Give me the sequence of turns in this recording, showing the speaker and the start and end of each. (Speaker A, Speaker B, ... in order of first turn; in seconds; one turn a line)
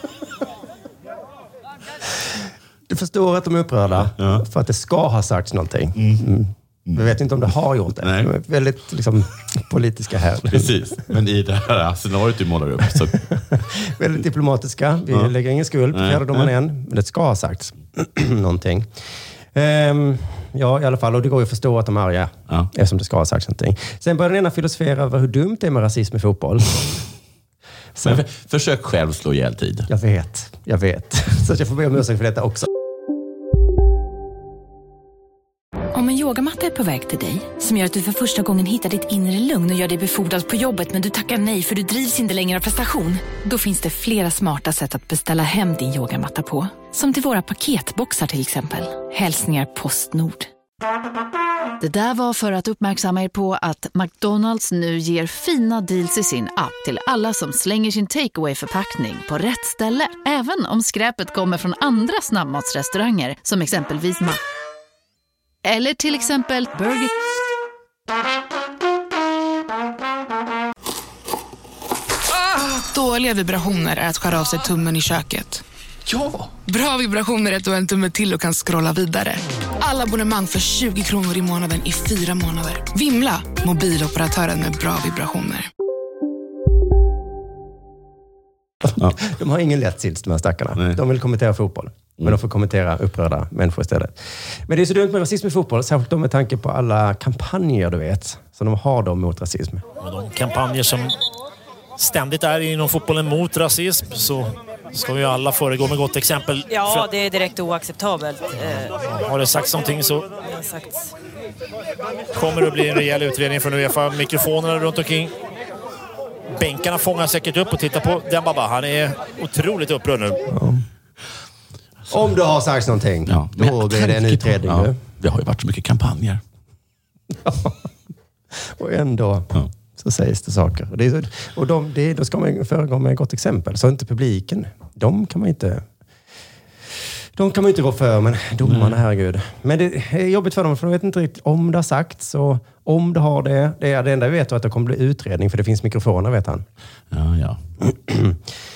Speaker A: 2.9-11.1
Speaker B: 4.1-4.4
Speaker B: 6.0-6.2
Speaker B: 8.0-8.3
Speaker B: 10.5-13.2
Speaker A: 13.4-18.9
Speaker B: 15.9-16.5
Speaker A: 19.5-27.0
Speaker A: 28.0-28.2
Speaker B: 28.0-29.9
Speaker A: 29.9-32.7
Speaker C: 35.9-50.5
Speaker D: 51.8-64.4
Speaker D: 65.6-67.1
Speaker E: 72.5-75.6
Speaker E: 76.7-85.7
Speaker A: 88.8-99.8
Speaker F: 100.0-101.1
Speaker F: 102.0-107.1
Speaker G: 106.7-109.0
Speaker F: 108.6-110.3
Speaker G: 110.3-111.1
Speaker F: 112.3-115.3
Speaker F: 116.5-120.4
Speaker A: 120.5-120.8
Speaker A: 122.1-125.0
Speaker B: 123.2-126.4
Speaker A: 127.4-127.8
Speaker A: 128.5-135.8
Speaker A: 137.3-146.6
Speaker B: 138.6-139.0
Speaker B: 147.1-147.6
Speaker A: 147.8-148.4